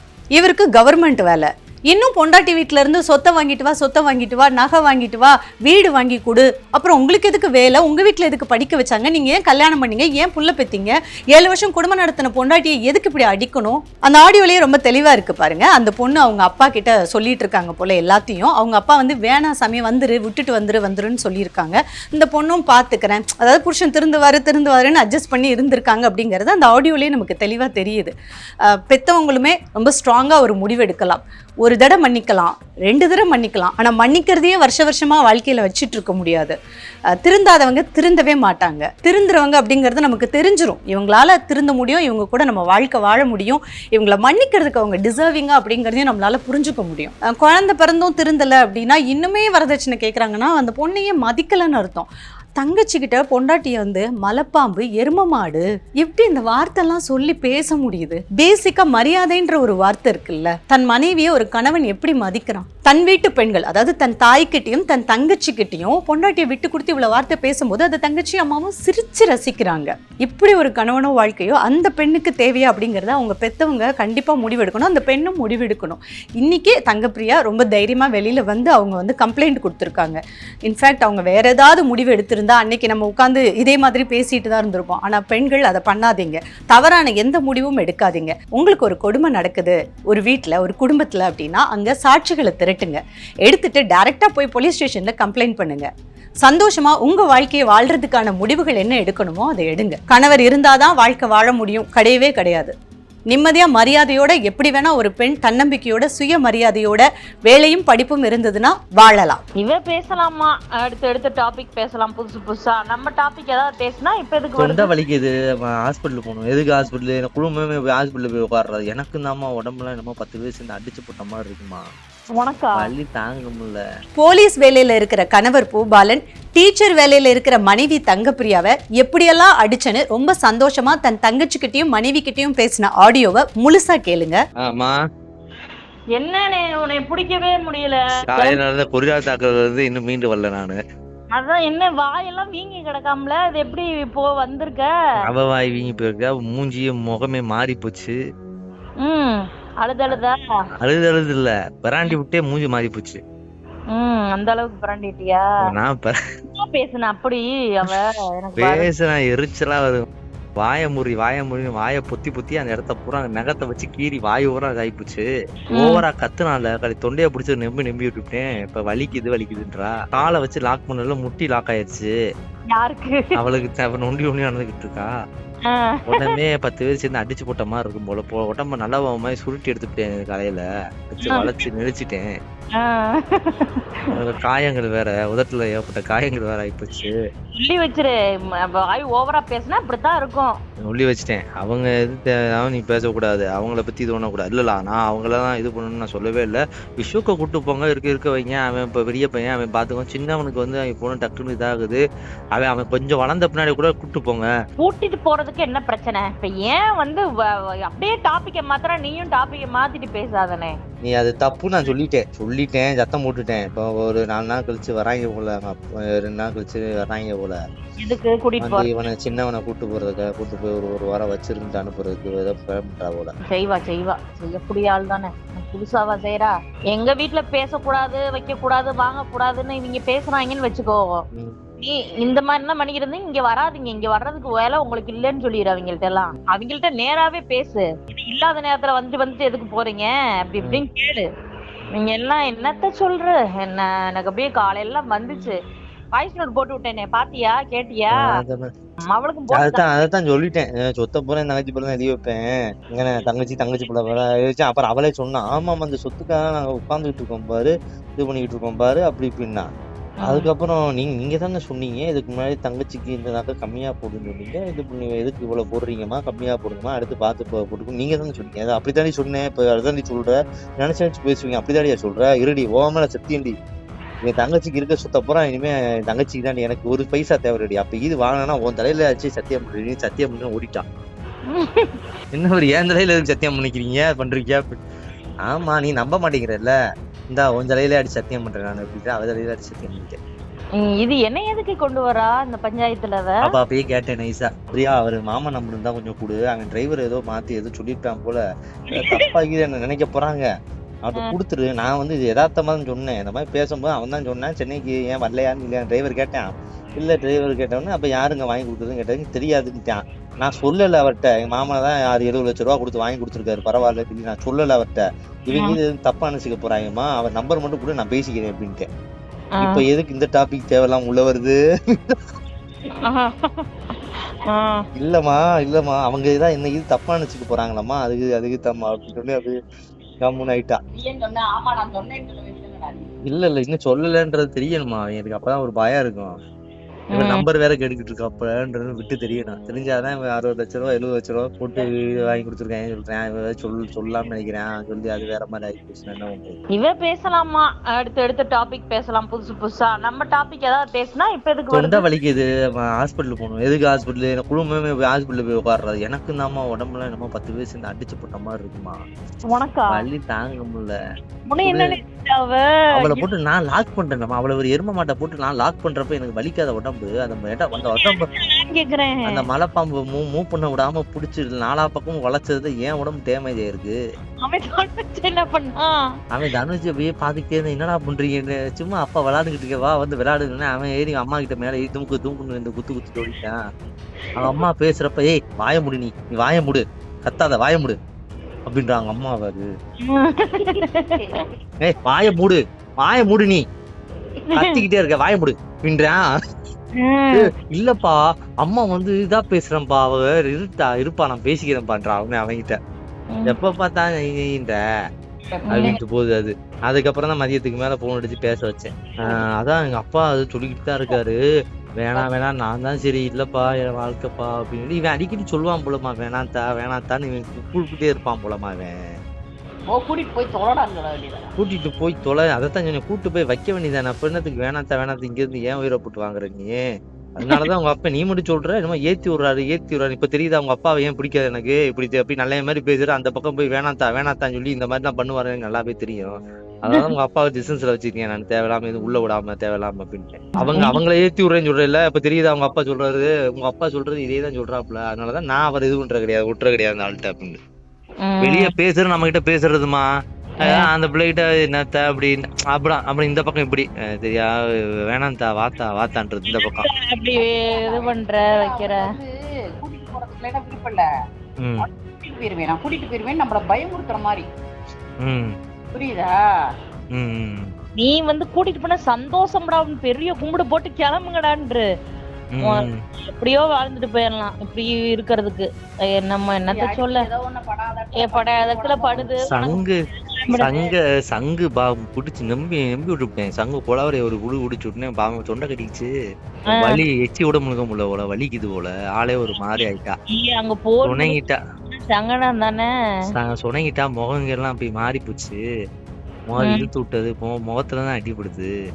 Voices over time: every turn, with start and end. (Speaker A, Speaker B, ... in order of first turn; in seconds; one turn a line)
Speaker A: 0.4-28.1
Speaker A: 28.7-36.6
Speaker A: 37.1-95.9
Speaker A: 96.4-102.7
Speaker A: 103.3-109.4
Speaker B: 109.6-114.9
Speaker C: 114.6-121.8
Speaker B: 122.3-122.9
Speaker C: 122.8-123.8
Speaker A: 124.2-134.4
Speaker C: 134.6-135.0
Speaker B: 136.1-138.6
Speaker C: 138.3-140.8
Speaker B: 141.3-144.9
Speaker C: 145.2-148.2
Speaker B: 149.0-150.4
Speaker C: 150.8-153.2
Speaker B: 153.9-155.5
Speaker C: 155.6-156.2
Speaker B: 156.6-158.9
Speaker C: 158.6-160.1
Speaker C: 160.6-172.1
Speaker B: 165.7-166.0
Speaker B: 172.7-173.3
Speaker C: 173.3-175.1
Speaker B: 175.7-176.3
Speaker C: 176.1-182.3
Speaker B: 182.8-184.2
Speaker C: 184.2-187.1
Speaker B: 187.6-188.1
Speaker B: 188.7-190.6
Speaker C: 190.8-202.0
Speaker C: 202.6-204.5
Speaker B: 204.8-207.3
Speaker B: 207.9-210.8
Speaker C: 211.1-217.6
Speaker B: 218.0-218.9
Speaker C: 218.6-223.3
Speaker B: 223.5-231.2
Speaker B: 231.8-241.3
Speaker B: 242.0-245.6
Speaker B: 246.1-248.2
Speaker C: 248.2-248.7
Speaker B: 249.0-249.8
Speaker C: 249.5-259.7
Speaker C: 260.2-273.6
Speaker C: 274.2-280.9
Speaker B: 281.5-281.9
Speaker C: 282.3-284.8
Speaker C: 285.5-286.7
Speaker C: 287.3-290.2
Speaker B: 290.8-293.5
Speaker C: 293.4-300.4
Speaker B: 298.9-299.3
Speaker C: 301.0-318.9
Speaker B: 319.6-319.8
Speaker C: 319.6-322.2
Speaker B: 323.1-323.7
Speaker B: 324.5-324.8
Speaker C: 325.0-329.6
Speaker C: 330.2-330.8
Speaker D: 330.9-333.1
Speaker C: 333.3-336.3
Speaker B: 337.1-337.4
Speaker C: 337.1-346.6
Speaker B: 346.8-352.0
Speaker C: 351.7-359.0
Speaker B: 359.5-360.0
Speaker C: 359.9-360.9
Speaker B: 361.5-363.2
Speaker C: 361.6-362.0
Speaker C: 363.0-368.3
Speaker B: 367.8-369.3
Speaker C: 369.3-374.0
Speaker B: 374.4-376.0
Speaker C: 376.3-383.6
Speaker C: 384.4-388.0
Speaker C: 388.7-389.7
Speaker B: 390.0-391.5
Speaker D: 390.6-391.5
Speaker C: 391.8-393.6
Speaker B: 394.5-394.8
Speaker C: 394.6-396.2
Speaker B: 397.0-397.5
Speaker C: 397.4-402.8
Speaker C: 403.5-404.8
Speaker D: 405.5-406.0
Speaker B: 405.7-406.0
Speaker C: 405.7-411.4
Speaker C: 412.0-418.9
Speaker D: 419.9-421.5
Speaker C: 421.6-426.8
Speaker C: 427.4-447.6
Speaker B: 436.9-437.1
Speaker B: 440.6-441.0
Speaker B: 448.2-448.7
Speaker C: 448.4-450.1
Speaker B: 450.6-450.9
Speaker C: 450.7-456.9
Speaker B: 456.5-459.0
Speaker D: 457.3-461.1
Speaker C: 461.6-461.9
Speaker D: 461.8-464.5
Speaker C: 465.2-465.6
Speaker D: 465.9-466.4
Speaker C: 467.1-467.7
Speaker B: 468.0-471.9
Speaker C: 472.6-473.0
Speaker B: 472.6-475.7
Speaker B: 476.2-477.2
Speaker D: 476.7-479.3
Speaker B: 478.2-480.7
Speaker C: 479.2-480.0
Speaker C: 480.5-486.1
Speaker D: 480.6-480.9
Speaker B: 486.7-487.0
Speaker C: 486.7-490.2
Speaker B: 490.4-491.4
Speaker C: 491.1-491.6
Speaker B: 491.9-492.9
Speaker C: 493.3-495.6
Speaker C: 496.5-498.7
Speaker B: 496.6-496.9